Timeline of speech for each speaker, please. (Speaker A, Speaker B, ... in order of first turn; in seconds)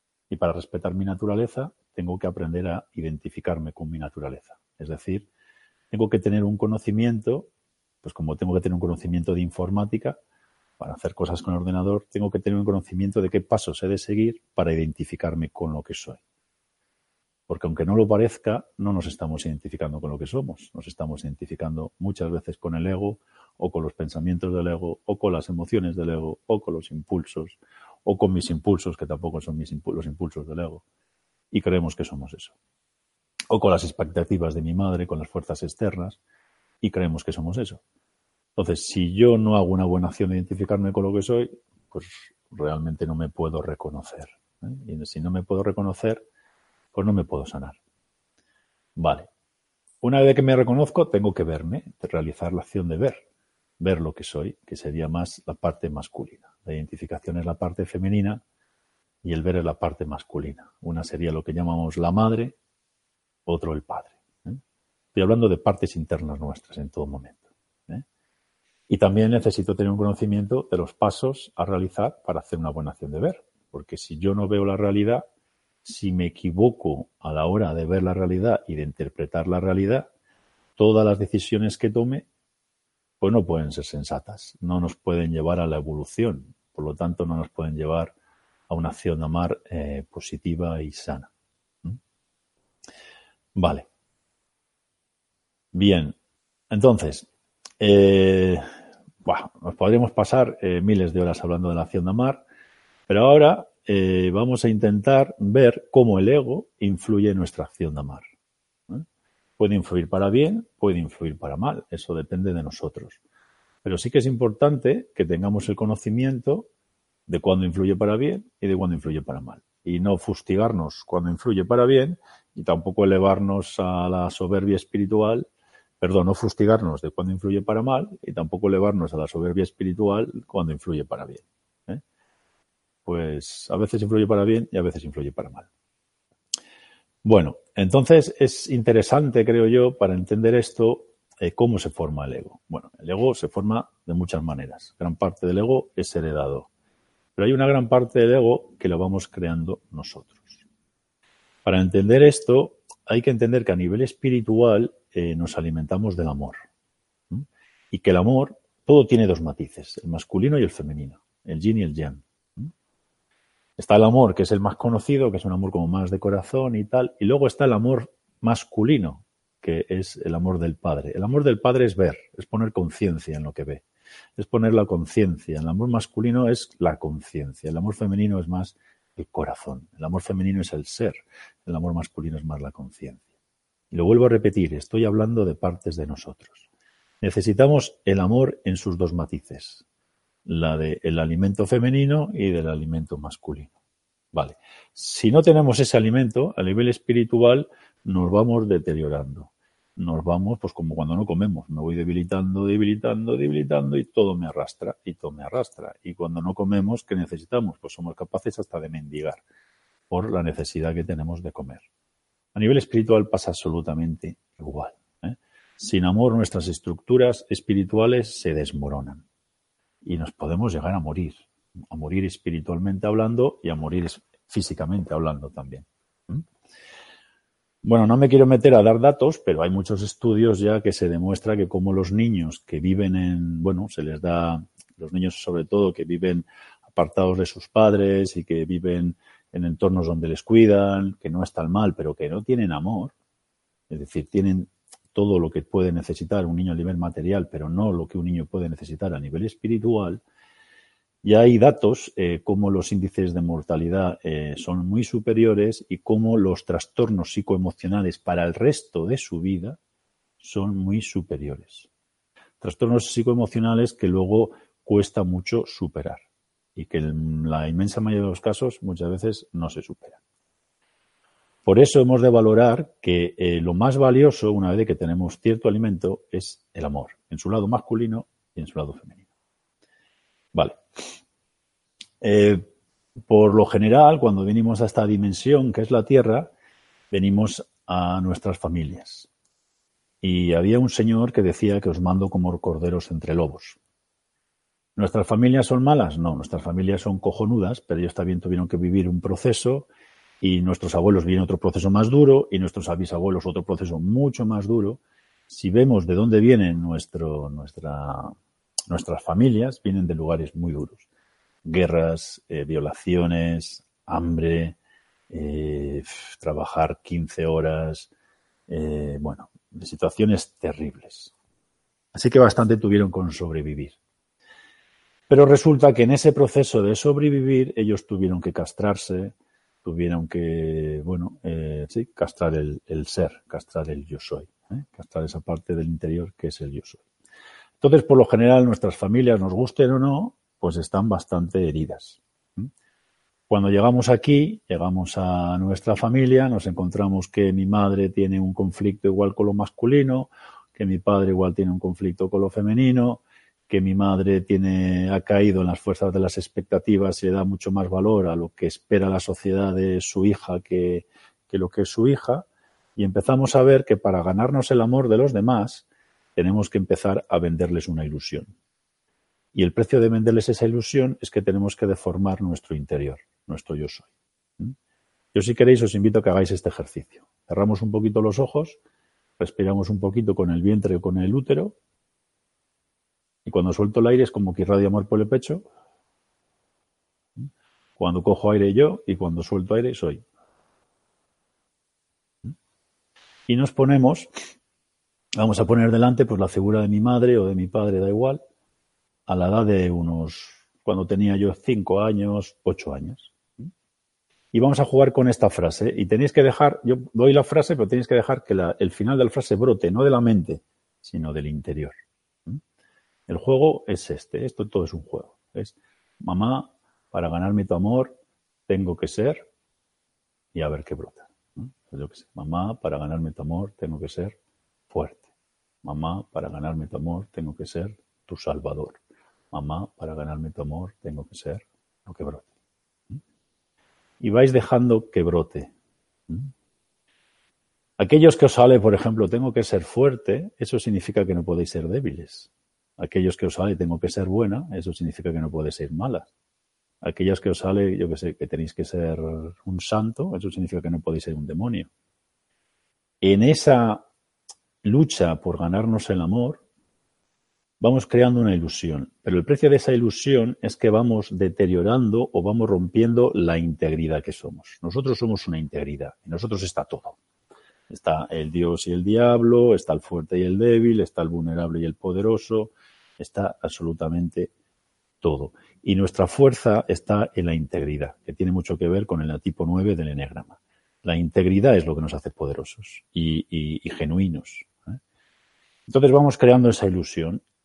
Speaker A: 0.3-5.3, 5.9-7.5, 8.0-10.2, 10.8-16.2, 17.5-30.8, 31.5-32.5, 33.5-36.2, 36.8-37.8, 38.6-46.2, 46.9-47.8, 49.0-49.3, 50.0-53.2, 53.8-58.4, 59.2-62.6, 63.5-64.6, 65.2-68.0, 68.9-75.2, 75.8-80.1, 80.8-82.3, 83.2-88.1, 88.7-91.3, 93.6-93.9, 95.7-96.2, 96.7-97.3, 97.8-98.6, 99.2-102.4, 103.1-108.2, 109.6-113.2, 113.8-116.7, 117.3-125.5, 126.0-132.0, 133.1-135.7, 137.2-146.7, 147.4-150.6, 151.7-156.6, 157.3-162.7, 163.8-173.8, 174.4-183.2, 183.9-186.6, 187.2-189.8, 190.5-193.7, 194.3-209.4, 210.1-211.8, 212.6-219.2, 220.0-226.4, 227.8-243.1, 243.9-250.2, 251.2-259.8, 260.4-261.9, 262.6-266.2, 266.8-270.2, 271.6-279.2, 280.5-280.8, 282.2-282.6, 283.3-286.5, 287.1-289.3, 290.2-293.8, 295.0-299.9, 300.4-308.3, 308.9-311.0, 311.6-314.8, 315.3-318.1, 318.7-321.3, 322.1-324.0, 325.3-337.0, 337.8-342.7, 343.5-365.9, 366.4-368.5, 369.6-374.1, 375.3-378.8, 379.4-381.8, 383.5-385.7, 388.0-390.2, 393.5-394.3, 395.4-398.4, 399.3-403.3, 404.5-412.0, 413.3-418.1, 418.7-419.5, 420.5-424.4, 424.9-425.2, 425.8-429.0, 429.5-432.5, 434.2-435.7, 438.0-446.3, 447.0-451.9, 453.2-454.0, 454.8-456.6, 457.8-467.2, 467.9-474.5, 475.2-484.7, 485.9-487.4